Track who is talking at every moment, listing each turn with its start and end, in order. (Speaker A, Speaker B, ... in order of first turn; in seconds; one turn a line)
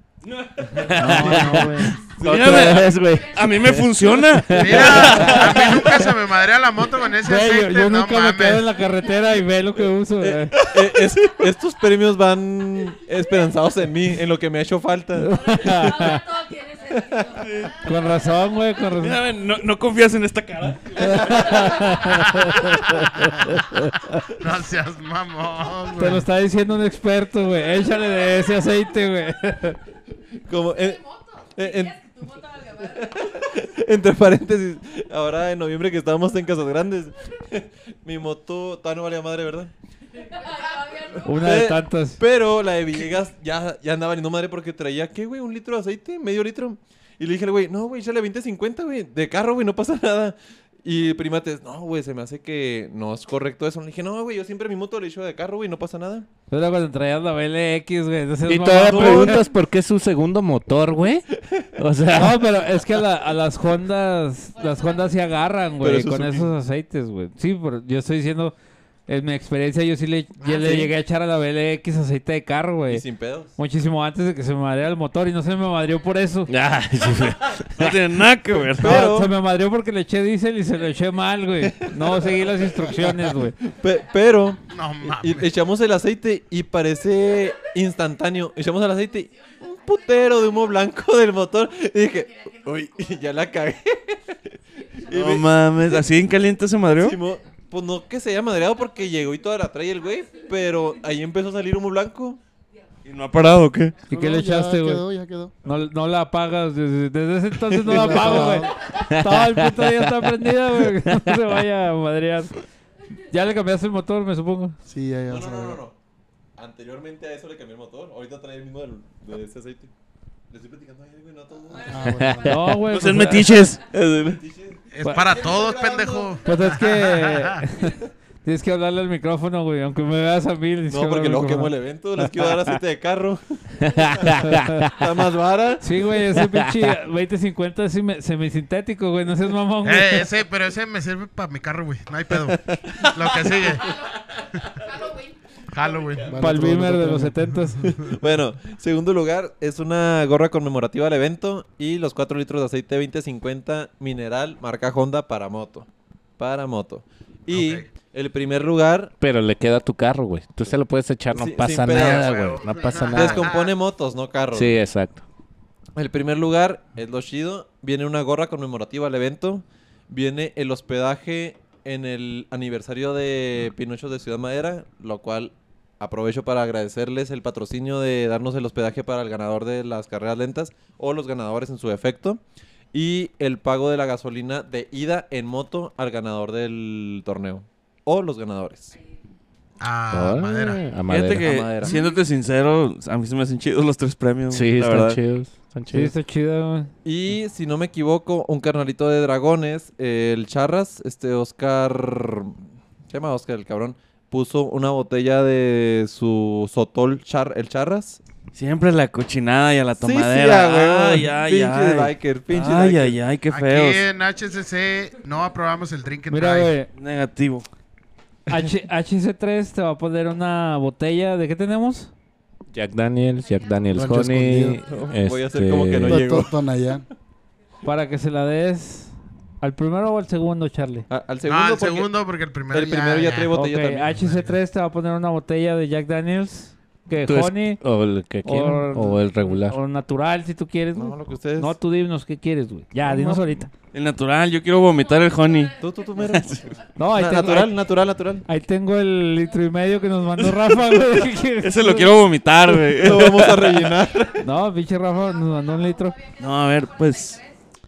Speaker A: 0.2-1.6
Speaker B: 0.8-1.4
Speaker C: 1.0-2.0
Speaker D: 1.1-3.8
Speaker E: 1.9-4.4
Speaker B: 2.2-2.9
Speaker A: 2.2-6.0
Speaker D: 4.4-5.5
Speaker F: 4.6-8.7
Speaker B: 4.7-5.2
Speaker C: 7.2-10.5
Speaker B: 10.2-16.2
Speaker E: 13.2-13.6
Speaker C: 15.2-16.2
Speaker E: 15.3-19.0
Speaker A: 17.4-17.8
Speaker C: 17.8-19.2
Speaker A: 19.0-21.8
Speaker C: 20.9-24.3
Speaker E: 21.2-22.2
Speaker F: 22.3-23.4
Speaker F: 24.4-26.3
Speaker C: 26.0-29.8
Speaker B: 30.5-31.0
Speaker E: 30.7-33.6
Speaker B: 31.6-32.0
Speaker B: 33.0-39.7
Speaker E: 40.2-41.7
Speaker C: 41.2-42.2
Speaker B: 41.3-56.3
Speaker C: 56.5-59.5
Speaker D: 58.5-62.4
Speaker B: 58.9-59.5
Speaker C: 62.1-68.5
Speaker E: 64.5-66.1
Speaker B: 65.8-66.5
Speaker C: 69.1-73.0
Speaker B: 70.4-70.9
Speaker B: 72.9-73.5
Speaker C: 73.6-76.5
Speaker D: 76.5-78.0
Speaker E: 77.0-77.5
Speaker A: 77.8-79.1
Speaker B: 78.7-79.3
Speaker C: 78.8-83.6
Speaker E: 82.2-83.1
Speaker B: 83.8-94.2
Speaker E: 83.8-84.6
Speaker F: 84.7-85.5
Speaker E: 87.2-91.0
Speaker E: 92.2-93.8
Speaker E: 94.8-96.6
Speaker B: 95.1-96.0
Speaker A: 95.1-97.2
Speaker B: 97.0-102.4
Speaker E: 97.1-101.4
Speaker A: 103.0-104.0
Speaker C: 104.1-105.0
Speaker G: 104.1-105.5
Speaker C: 105.7-112.6
Speaker G: 107.8-108.8
Speaker E: 108.6-109.0
Speaker D: 109.1-110.1
Speaker C: 113.3-114.8
Speaker G: 114.9-115.8
Speaker B: 115.3-116.0
Speaker B: 116.6-119.9
Speaker B: 120.5-122.1
Speaker E: 121.7-122.6
Speaker G: 121.8-122.6
Speaker C: 122.5-123.8
Speaker A: 122.9-123.8
Speaker B: 123.9-126.4
Speaker F: 124.9-127.7
Speaker C: 126.5-132.7
Speaker B: 130.9-133.6
Speaker D: 133.8-134.9
Speaker B: 134.2-135.8
Speaker C: 134.2-134.9
Speaker C: 135.8-140.3
Speaker D: 136.4-136.9
Speaker F: 139.8-143.9
Speaker B: 142.7-143.1
Speaker E: 143.5-145.4
Speaker F: 145.7-146.4
Speaker G: 146.3-147.4
Speaker C: 146.3-147.8
Speaker F: 147.8-148.2
Speaker B: 147.8-159.2
Speaker F: 157.5-157.9
Speaker D: 159.2-163.5
Speaker B: 161.3-164.8
Speaker F: 161.8-163.7
Speaker D: 164.5-165.2
Speaker B: 166.0-182.4
Speaker B: 182.9-188.9
Speaker E: 188.9-189.2
Speaker F: 189.8-190.9
Speaker D: 190.1-191.5
Speaker A: 191.1-195.2
Speaker B: 191.4-192.0
Speaker E: 191.8-192.2
Speaker D: 194.5-196.1
Speaker C: 195.9-196.9
Speaker B: 197.1-208.2
Speaker A: 208.6-214.0
Speaker B: 210.0-213.2
Speaker F: 213.5-216.8
Speaker E: 214.4-215.2
Speaker C: 216.3-216.9
Speaker A: 216.9-217.7
Speaker C: 218.5-222.1
Speaker D: 222.7-226.3
Speaker E: 223.4-224.2
Speaker G: 223.9-224.8
Speaker E: 224.7-225.1
Speaker B: 224.9-226.5
Speaker G: 226.1-227.1
Speaker C: 227.8-231.1
Speaker B: 231.1-232.1
Speaker F: 231.4-233.6
Speaker B: 232.7-234.3
Speaker C: 233.5-237.8
Speaker F: 234.1-234.6
Speaker D: 237.2-239.8
Speaker C: 238.4-243.7
Speaker B: 240.9-241.8
Speaker B: 243.1-243.4
Speaker A: 243.9-246.6
Speaker E: 244.7-247.0
Speaker B: 245.8-248.5
Speaker C: 247.0-247.7
Speaker C: 248.5-252.2
Speaker E: 249.4-251.5
Speaker A: 251.6-253.9
Speaker B: 253.0-254.4
Speaker C: 254.4-256.2
Speaker E: 255.0-257.6
Speaker A: 256.4-257.4